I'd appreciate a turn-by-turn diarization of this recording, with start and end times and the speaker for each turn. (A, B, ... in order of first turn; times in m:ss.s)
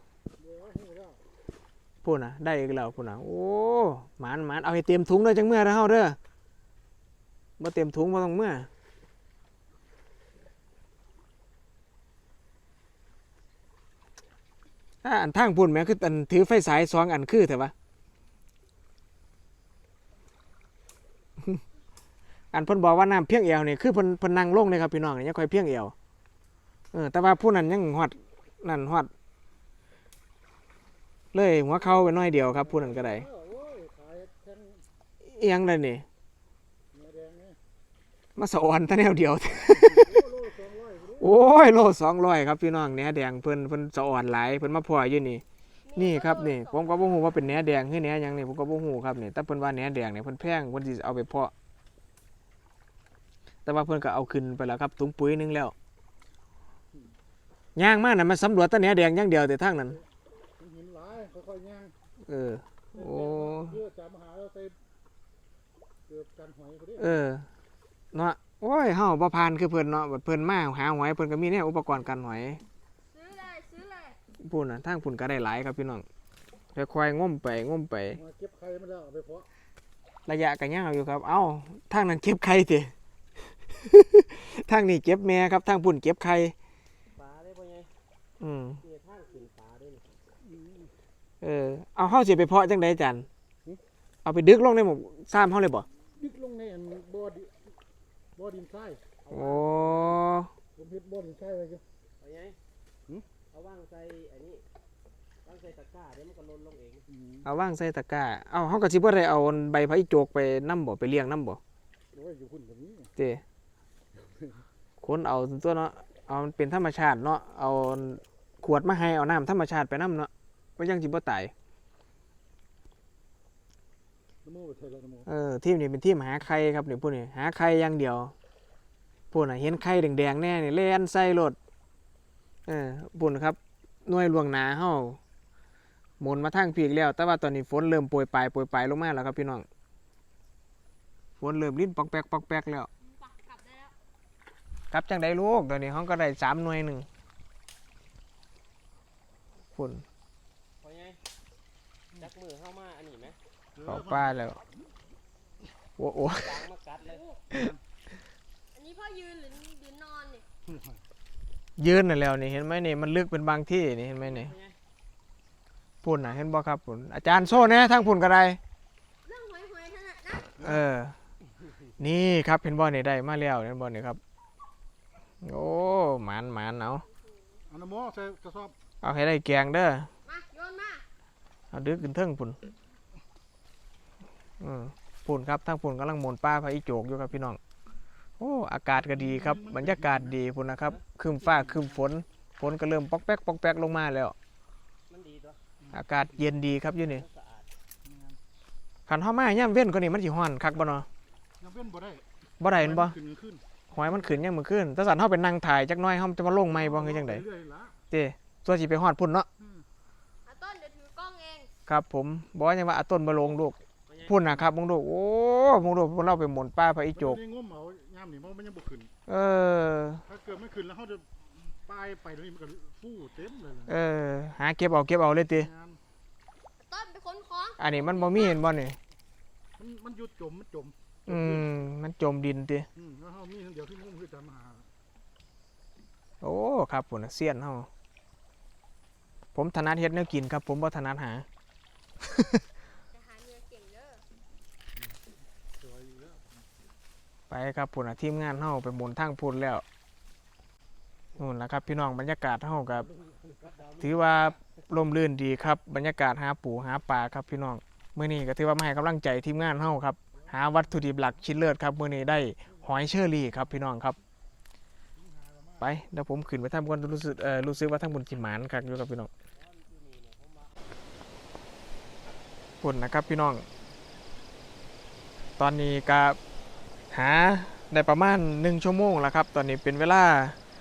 0:00.8-0:01.1 A
0:02.0-0:06.2 B
0:07.6-0:08.7 B
0:15.0-0:17.7 B
0:22.5-0:25.9 B
0:26.9-0:29.1 B
0:31.3-0:33.3 B
0:33.6-0:34.5 A
0:35.2-0:36.0 B
0:37.0-0:37.4 A
0:38.4-0:40.2 B
0:41.2-0:45.4 B
0:45.9-0:47.2 C
0:46.0-0:51.5 B
0:53.6-0:55.7 B
0:57.8-1:00.0 B
1:00.6-1:01.9 A
1:02.3-1:03.8 B
1:04.0-1:04.7 A
1:06.2-1:06.8 A
1:07.0-1:07.5 B
1:08.1-1:12.6 B
1:13.0-1:14.2 C
1:14.4-1:16.1 B
1:16.8-1:18.2 B
1:18.5-1:19.3 A
1:20.3-1:22.9 B
1:23.7-1:26.6 B
1:27.1-1:27.9 D
1:28.4-1:28.8 B
1:28.8-1:30.1 D
1:31.4-1:33.3 B
1:34.2-1:35.9 B
1:36.3-1:37.5 A
1:38.4-1:39.0 A
1:39.3-1:40.1 D
1:39.3-1:40.5 B
1:41.0-1:41.6 A
1:42.2-1:42.6 D
1:43.5-1:44.6 D
1:45.4-1:47.1 D
1:47.4-1:51.6 B
1:52.5-1:52.8 A
1:53.2-1:53.4 B
1:55.0-2:01.5 B
2:04.5-2:05.0 A
2:05.3-2:08.3 B
2:09.3-2:11.6 B
2:12.7-2:15.2 B
2:16.2-2:19.7 B
2:21.4-2:22.9 B
2:23.0-2:23.9 C
2:24.9-2:27.1 B
2:29.8-2:30.0 B
2:30.8-2:31.2 D
2:32.2-2:33.4 D
2:33.8-2:34.6 B
2:36.0-2:36.6 B
2:36.4-2:37.2 D
2:37.0-2:37.4 C
2:38.7-2:40.4 C
2:41.8-2:44.5 B
2:44.2-2:44.8 D
2:46.0-2:48.6 B
2:49.2-2:50.6 C
2:50.6-2:51.2 B
2:52.0-2:54.2 B
2:55.4-2:57.0 B
2:57.0-2:57.6 C
2:57.8-2:58.7 A
2:59.0-3:00.1 B
3:00.2-3:01.0 C
3:01.7-3:02.6 B
3:04.6-3:07.6 B
3:08.4-3:14.4 B
3:15.1-3:15.6 D
3:15.9-3:17.2 B
3:17.0-3:17.7 D
3:19.1-3:21.1 B
3:21.6-3:22.2 A
3:22.6-3:23.2 B
3:23.9-3:27.5 B
3:28.1-3:29.5 B
3:30.5-3:31.7 C
3:31.9-3:37.4 B
3:34.1-3:34.6 D
3:37.6-3:39.0 A
3:39.3-3:40.2 B
3:40.5-3:41.2 A
3:41.9-3:43.7 A
3:43.9-3:45.7 B
3:46.8-3:48.6 C
3:47.8-3:49.0 B
3:49.8-3:50.9 A
3:51.3-3:52.9 B
3:53.2-3:54.8 A
3:56.4-3:57.9 B
3:59.6-4:01.5 B
4:02.3-4:02.6 B
4:03.1-4:04.2 C
4:07.5-4:09.8 B
4:11.4-4:13.1 B
4:13.4-4:14.2 D
4:14.0-4:24.2 B
4:25.8-4:29.3 B
4:29.5-4:30.8 D
4:32.8-4:33.7 B
4:35.6-4:36.4 B
4:37.1-4:40.6 B